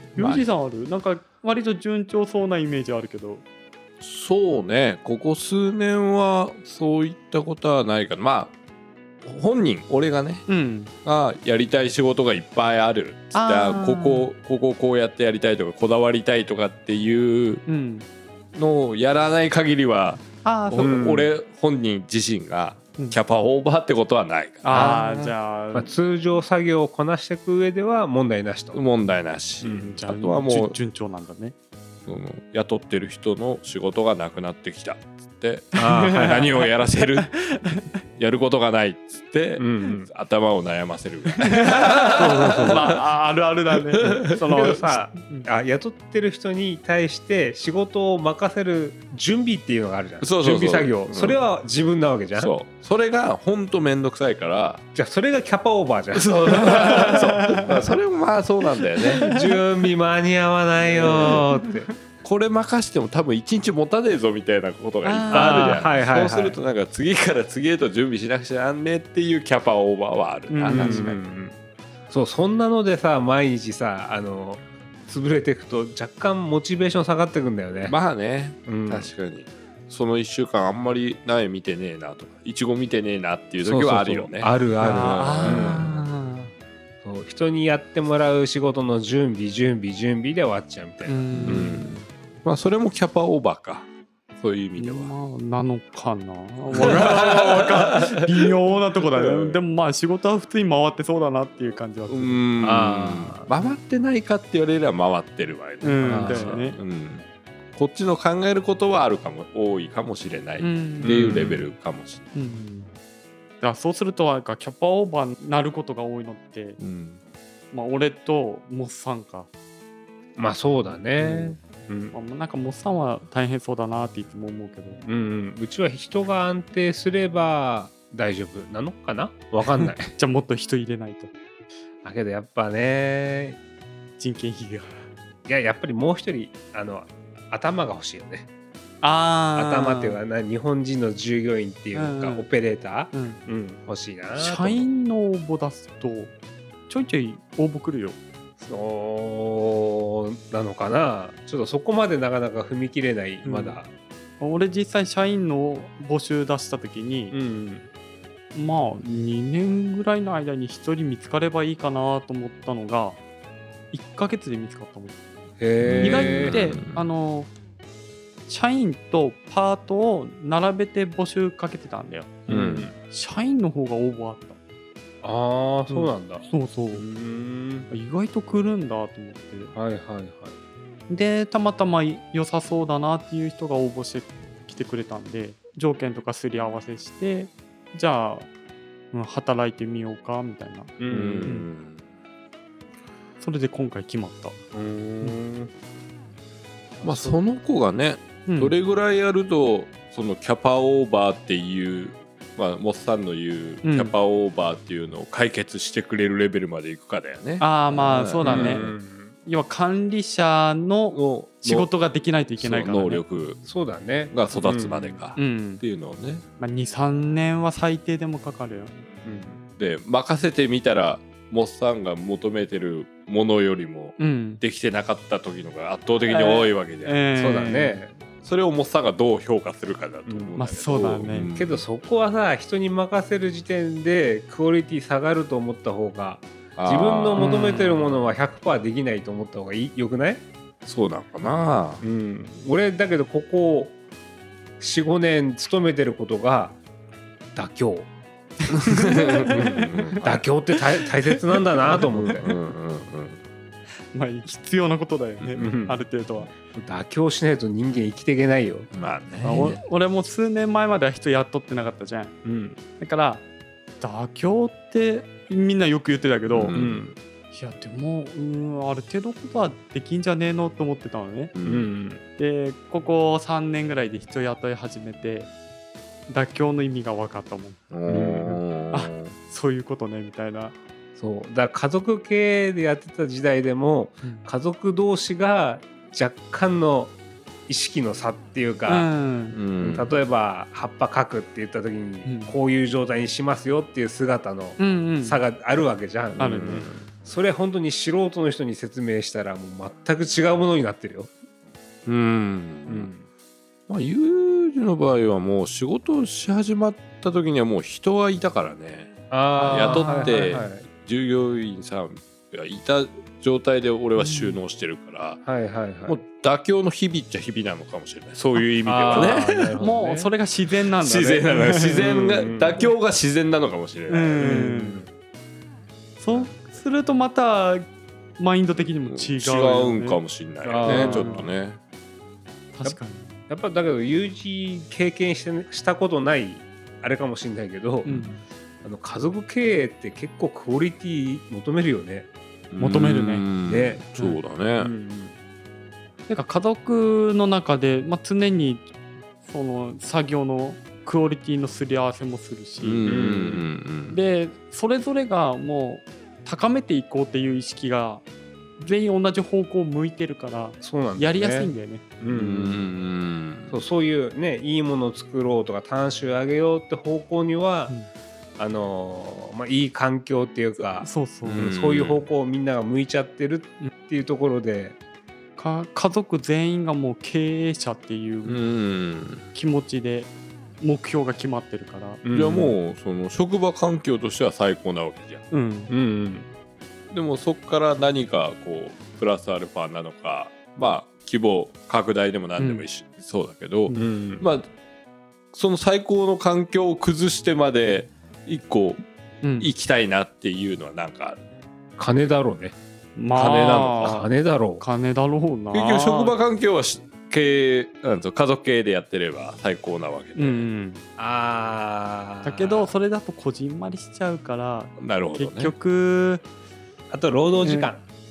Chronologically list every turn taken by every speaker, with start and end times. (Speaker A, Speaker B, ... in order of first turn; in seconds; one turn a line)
Speaker A: 0.1-0.5
Speaker B: 0.1-3.4
Speaker A: 4.0-8.5
Speaker A: 9.2-10.5
Speaker B: 10.5-10.9
Speaker A: 11.0-17.6
Speaker B: 13.3-14.3
Speaker B: 17.6-18.1
Speaker A: 18.5-25.3
Speaker B: 20.4-21.1
Speaker C: 20.8-21.3
Speaker B: 24.6-25.9
Speaker C: 25.7-28.8
Speaker A: 28.7-30.8
Speaker C: 29.6-29.9
Speaker B: 29.8-31.5
Speaker A: 32.0-37.3
Speaker B: 35.8-36.5
Speaker C: 35.8-36.5
Speaker B: 37.0-37.9
Speaker A: 38.2-43.0
Speaker C: 39.6-40.1
Speaker B: 41.5-45.5
Speaker C: 42.2-42.9
Speaker A: 43.7-44.2
Speaker C: 44.4-52.5
Speaker A: 50.2-51.4
Speaker A: 52.4-54.8
Speaker C: 54.9-57.2
Speaker A: 56.1-59.3
Speaker B: 56.6-57.7
Speaker B: 59.0-59.4
Speaker C: 59.2-61.9
Speaker A: 60.8-61.4
Speaker B: 61.1-61.9
Speaker A: 62.2-71.2
Speaker B: 65.0-65.8
Speaker C: 65.3-66.6
Speaker B: 70.5-71.1
Speaker C: 70.7-71.6
Speaker C: 72.1-78.0
Speaker A: 77.8-86.1
Speaker C: 78.7-79.1
Speaker C: 83.6-85.8
Speaker B: 84.8-86.5
Speaker C: 87.0-91.8
Speaker B: 91.0-92.0
Speaker A: 91.3-93.9
Speaker A: 94.4-95.1
Speaker B: 94.8-102.4
Speaker A: 96.7-98.5
Speaker A: 102.1-112.2
Speaker C: 102.6-103.5
Speaker B: 105.8-106.8
Speaker C: 106.0-106.6
Speaker B: 110.6-111.4
Speaker C: 111.0-111.6
Speaker B: 112.3-112.9
Speaker B: 113.6-116.8
Speaker A: 116.8-117.2
Speaker B: 117.7-119.5
Speaker C: 120.4-122.1
Speaker B: 121.2-121.5
Speaker B: 122.1-125.0
Speaker C: 125.0-130.1
Speaker B: 129.8-131.3
Speaker C: 132.0-133.6
Speaker B: 134.2-135.0
Speaker C: 135.5-138.5
Speaker B: 139.0-140.2
Speaker C: 139.6-144.9
Speaker B: 141.9-142.5
Speaker B: 143.1-143.4
Speaker B: 144.3-146.3
Speaker B: 146.9-148.2
Speaker C: 148.6-153.9
Speaker B: 153.4-153.8
Speaker B: 154.4-157.3
Speaker C: 157.3-157.9
Speaker B: 158.5-163.2
Speaker B: 163.9-165.2
Speaker C: 165.6-166.8
Speaker A: 165.8-167.1
Speaker B: 166.0-167.5
Speaker B: 168.5-174.6
Speaker C: 172.5-172.9
Speaker A: 172.5-172.9
Speaker C: 175.2-177.9
Speaker B: 175.9-177.0
Speaker B: 177.9-179.7
Speaker C: 179.7-180.6
Speaker B: 181.1-188.5
Speaker B: 189.1-191.7
Speaker C: 191.0-191.6
Speaker A: 191.1-192.0
Speaker B: 193.4-194.6
Speaker C: 194.7-195.7
Speaker C: 197.0-197.4
Speaker A: 197.0-208.9
Speaker B: 198.4-198.7
Speaker B: 203.8-204.1
Speaker B: 207.6-208.8
Speaker C: 208.4-209.3
Speaker B: 209.4-213.2
Speaker A: 211.1-211.9
Speaker A: 212.6-213.6
Speaker C: 213.6-215.2
Speaker A: 214.3-216.4
Speaker B: 215.3-215.8
Speaker B: 216.6-219.1
Speaker C: 219.2-219.6
Speaker A: 219.8-227.2
Speaker B: 224.2-224.6
Speaker B: 226.3-228.0
Speaker C: 227.3-228.1
Speaker A: 228.4-231.9
Speaker C: 230.3-230.6
Speaker B: 230.6-231.5
Speaker C: 231.5-240.4
Speaker A: 236.8-237.5
Speaker B: 237.4-238.1
Speaker A: 240.8-242.0
Speaker C: 242.0-244.0
Speaker C: 244.8-246.8
Speaker C: 247.5-248.1
Speaker A: 248.7-250.4
Speaker B: 248.8-249.9
Speaker C: 249.5-252.5
Speaker B: 251.9-252.4
Speaker A: 251.9-253.4
Speaker B: 254.1-256.5
Speaker A: 255.4-255.7
Speaker C: 255.6-256.0
Speaker C: 256.7-258.9
Speaker A: 258.9-259.8
Speaker B: 259.4-262.3
Speaker C: 262.4-262.8
Speaker B: 263.0-263.4
Speaker B: 264.0-266.8
Speaker A: 266.5-267.0
Speaker C: 266.7-267.1
Speaker B: 267.5-271.5
Speaker A: 271.6-271.9
Speaker C: 271.6-272.2
Speaker B: 272.4-275.5
Speaker B: 276.3-277.8
Speaker A: 277.9-279.3
Speaker C: 278.1-278.6
Speaker B: 278.9-280.7
Speaker C: 281.2-287.1
Speaker C: 287.7-289.1
Speaker B: 288.9-289.6
Speaker A: 289.5-290.1
Speaker C: 289.8-296.5
Speaker B: 292.2-292.5
Speaker B: 294.8-295.4
Speaker A: 296.4-297.1
Speaker B: 296.4-296.9
Speaker C: 297.2-301.3
Speaker A: 302.1-303.1
Speaker C: 302.9-303.2
Speaker A: 303.9-309.1
Speaker C: 309.3-310.9
Speaker B: 309.6-310.6
Speaker A: 309.6-315.4
Speaker B: 314.2-314.6
Speaker C: 315.4-316.2
Speaker A: 316.1-319.8
Speaker C: 318.8-320.3
Speaker B: 319.1-322.0
Speaker A: 320.9-324.7
Speaker C: 322.0-322.9
Speaker B: 324.1-325.1
Speaker C: 324.4-325.1
Speaker B: 326.2-327.9
Speaker B: 328.4-330.2
Speaker A: 328.8-331.8
Speaker C: 330.6-331.4
Speaker B: 330.8-331.5
Speaker B: 332.7-333.4
Speaker C: 333.5-338.1
Speaker A: 338.0-338.4
Speaker B: 338.1-338.4
Speaker C: 338.8-342.3
Speaker A: 342.7-344.9
Speaker B: 342.8-343.5
Speaker C: 343.6-344.0
Speaker C: 344.8-345.3
Speaker B: 346.3-348.9
Speaker B: 349.4-353.2
Speaker A: 352.8-354.2
Speaker C: 353.0-353.6
Speaker B: 354.1-358.2
Speaker B: 358.8-362.0
Speaker C: 360.8-362.9
Speaker A: 362.3-363.8
Speaker C: 363.7-367.9
Speaker C: 368.6-374.9
Speaker B: 371.0-371.7
Speaker A: 371.4-372.2
Speaker B: 375.6-378.6
Speaker A: 378.4-379.4
Speaker B: 379.5-382.2
Speaker C: 382.2-382.8
Speaker A: 382.3-385.4
Speaker B: 385.5-385.9
Speaker C: 385.9-386.5
Speaker A: 387.1-394.7
Speaker B: 392.6-392.9
Speaker C: 393.9-394.4
Speaker A: 395.5-399.0
Speaker B: 399.4-399.7
Speaker A: 399.6-401.4
Speaker C: 402.0-402.7
Speaker B: 403.1-404.3
Speaker A: 403.4-403.9
Speaker C: 403.4-404.8
Speaker B: 404.8-406.3
Speaker A: 405.7-410.6
Speaker B: 410.4-411.0
Speaker C: 411.2-412.9
Speaker B: 412.4-416.4
Speaker A: 415.0-415.7
Speaker C: 417.1-418.0
Speaker B: 417.6-417.9